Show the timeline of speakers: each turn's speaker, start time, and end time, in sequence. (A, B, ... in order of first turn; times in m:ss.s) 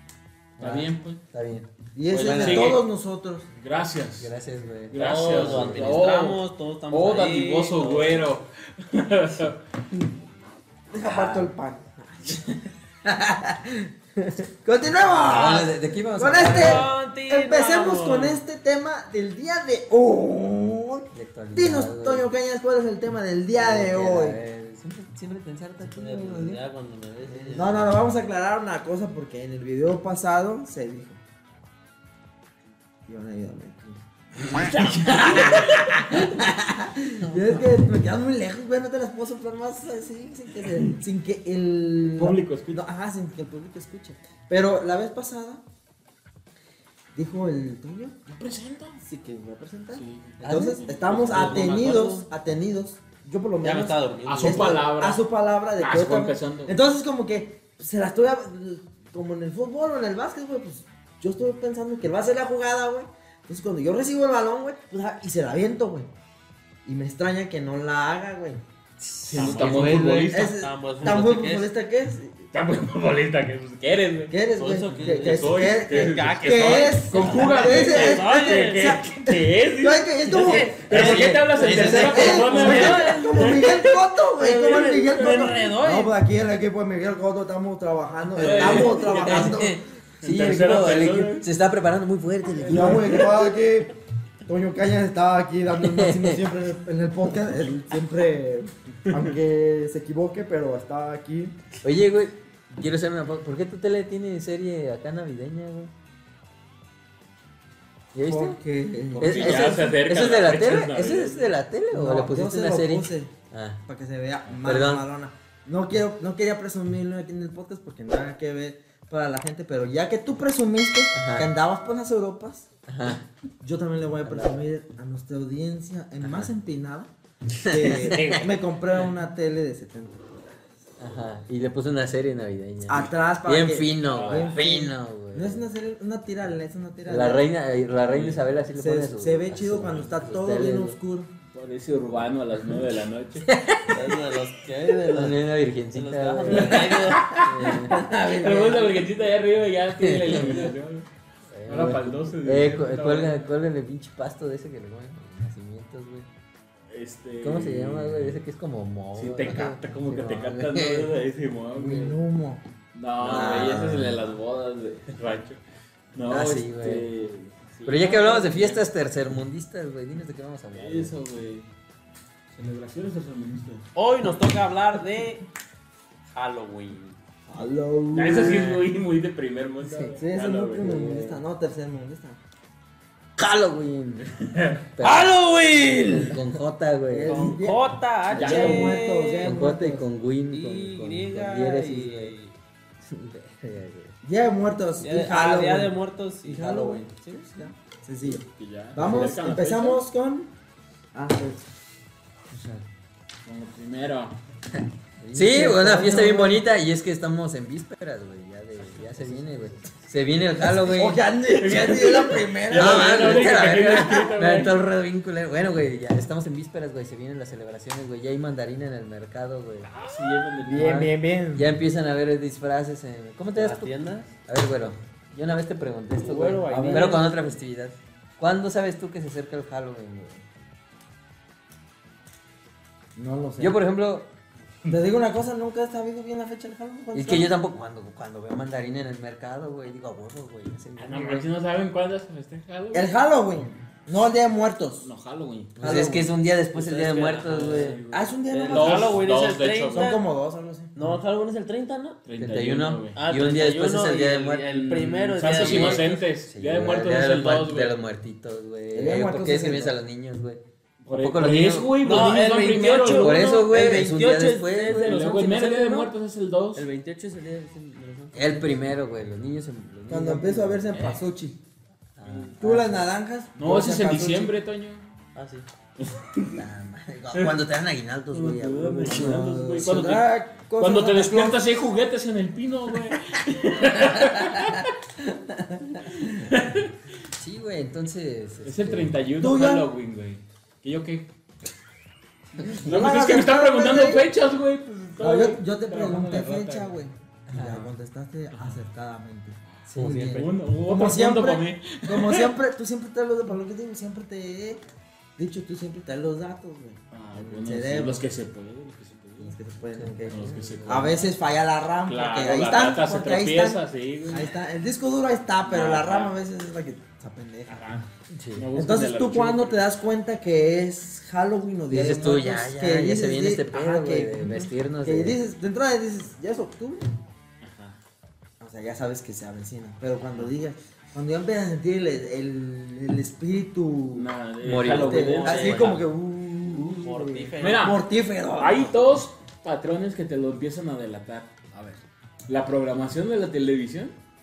0:00.6-0:02.8 A
0:00.6-0:01.2 B
0:01.9-0:03.5 C
0:02.2-0:02.8 B
0:03.6-0:04.3 B
0:04.2-0:06.0 A
0:04.9-0:09.6 B
0:04.9-0:08.3 D
0:10.9-0:24.4 C
0:11.0-0:11.5 A
0:15.0-0:16.9 A
0:16.4-0:18.4 D
0:21.1-0:22.3 A
0:23.5-0:26.6 A
0:25.8-0:28.0 D
0:27.5-0:31.2 C
0:33.1-0:45.6 C
0:34.4-0:36.1 B
0:37.2-0:37.8 A
0:42.1-0:42.8 B
0:47.1-0:48.1 C
0:48.3-0:49.0 B
0:49.0-1:06.1 C
0:49.9-0:52.0 B
0:50.4-0:50.8 A
0:51.1-0:52.3 D
0:53.6-0:54.8 D
0:54.2-0:55.2 B
0:55.8-0:56.8 B
1:06.8-1:08.6 C
1:09.2-1:10.6 B
1:09.2-1:09.5 A
1:09.3-1:12.4 C
1:09.3-1:11.7 D
1:12.5-1:14.3 B
1:14.3-1:29.8 C
1:14.5-1:19.0 D
1:15.0-1:24.0 B
1:20.4-1:22.9 A
1:21.8-1:23.6 D
1:24.4-1:26.2 D
1:24.9-1:25.5 B
1:28.3-1:31.4 B
1:28.6-1:33.3 A
1:32.6-1:33.3 B
1:32.6-1:33.9 C
1:34.4-1:41.6 C
1:35.8-1:36.4 A
1:41.8-1:45.9 A
1:48.1-1:48.6 A
1:48.2-1:49.9 C
1:49.1-1:51.5 B
1:49.2-1:53.8 A
1:51.9-1:53.3 C
1:53.8-2:02.7 C
1:54.6-1:55.0 A
2:01.1-2:01.5 A
2:02.9-2:03.2 A
2:03.6-2:07.1 C
2:04.2-2:04.7 A
2:06.2-2:06.5 A
2:07.6-2:08.5 A
2:07.6-2:10.4 C
2:07.8-2:08.5 B
2:11.0-2:15.6 A
2:12.9-2:17.4 C
2:14.0-2:14.6 B
2:17.0-2:21.0 A
2:18.0-2:18.4 B
2:18.8-2:21.3 C
2:21.5-2:23.5 B
2:23.4-2:24.0 A
2:23.9-2:28.8 D
2:25.1-2:28.0 A
2:26.5-2:27.5 B
2:27.9-2:29.1 C
2:28.1-2:31.0 B
2:30.0-2:30.7 A
2:31.5-2:36.3 A
2:31.7-2:33.5 B
2:36.9-2:38.4 B
2:37.4-2:41.1 A
2:39.1-2:42.2 B
2:41.7-2:42.6 C
2:42.9-2:45.6 B
2:43.2-2:44.4 A
2:46.1-2:48.8 B
2:46.3-2:47.0 A
2:47.8-2:51.1 A
2:50.7-2:51.7 B
2:52.5-2:53.8 B
2:53.9-2:55.4 D
2:56.3-2:57.2 D
2:57.5-2:58.7 C
2:58.1-3:01.1 B
2:58.3-2:58.8 A
2:59.8-3:00.1 A
3:00.2-3:02.4 C
3:00.8-3:01.4 A
3:03.4-3:04.3 A
3:04.4-3:04.9 B
3:04.9-3:05.4 A
3:05.0-3:06.4 D
3:06.0-3:07.6 A
3:07.1-3:10.1 C
3:07.2-3:09.6 D
3:08.3-3:09.0 B
3:08.7-3:12.3 A
3:10.5-3:12.5 D
3:13.0-3:14.1 A
3:14.2-3:20.5 C
3:15.0-3:17.5 D
3:18.3-3:20.1 B
3:21.1-3:21.6 C
3:22.5-3:22.8 A
3:23.4-3:24.4 B
3:24.7-3:31.2 A
3:25.3-3:26.6 C
3:30.6-3:34.3 C
3:31.5-3:34.8 B
3:32.7-3:39.9 A
3:39.8-3:41.0 B
3:40.6-3:41.7 C
3:40.7-3:43.9 A
3:43.6-3:44.3 D
3:44.5-3:50.4 A
3:46.2-3:47.3 D
3:46.7-3:47.2 C
3:53.2-3:53.8 C
3:53.6-3:54.3 A
3:54.8-3:57.5 C
3:57.1-4:01.4 A
4:01.0-4:03.1 B
4:02.9-4:05.1 C
4:05.0-4:06.1 B
4:05.8-4:06.3 C
4:05.8-4:08.0 A
4:06.7-4:10.2 D
4:07.7-4:10.2 B
4:08.1-4:09.2 C
4:09.9-4:10.9 C
4:10.9-4:12.2 D
4:12.2-4:13.2 B
4:12.4-4:14.7 A
4:13.1-4:16.2 D
4:14.7-4:18.0 B
4:15.5-4:20.6 A
4:18.9-4:20.0 C
4:21.0-4:23.5 B
4:21.1-4:22.1 A
4:22.0-4:26.1 D
4:23.0-4:25.2 A
4:24.8-4:26.8 B
4:26.7-4:28.7 D
4:28.3-4:31.0 A
4:30.1-4:31.6 C
4:30.9-4:31.2 D
4:32.2-4:33.1 A
4:32.3-4:32.5 B
4:32.6-4:34.5 C
4:33.6-4:35.0 B
4:35.3-4:35.6 D
4:36.0-4:36.6 B
4:36.5-4:39.4 A
4:37.3-4:37.6 B
4:38.3-4:44.9 B
4:38.6-4:41.7 C
4:45.2-4:46.5 C
4:46.2-4:46.9 B
4:47.3-4:49.2 A
4:48.6-4:51.3 B
4:49.4-4:49.9 C
4:52.6-4:54.3 C
4:52.7-4:56.9 B
4:55.2-5:04.8 C
4:57.5-4:57.9 A
4:58.5-4:58.8 B
4:59.8-5:02.5 B
4:59.9-5:00.2 A
5:05.4-5:08.2 C
5:07.1-5:09.6 B
5:09.4-5:17.9 C
5:09.9-5:10.9 A
5:10.2-5:11.3 B
5:12.0-5:14.5 B
5:15.6-5:16.3 B
5:17.7-5:19.9 B
5:18.3-5:18.7 A
5:18.7-5:27.1 C
5:21.9-5:25.4 A
5:27.6-5:28.0 B
5:28.6-5:39.1 C
5:34.1-5:36.1 B
5:34.6-5:35.4 A
5:35.3-5:36.0 D
5:36.9-5:38.0 D
5:37.6-5:41.7 B
5:42.5-5:44.2 B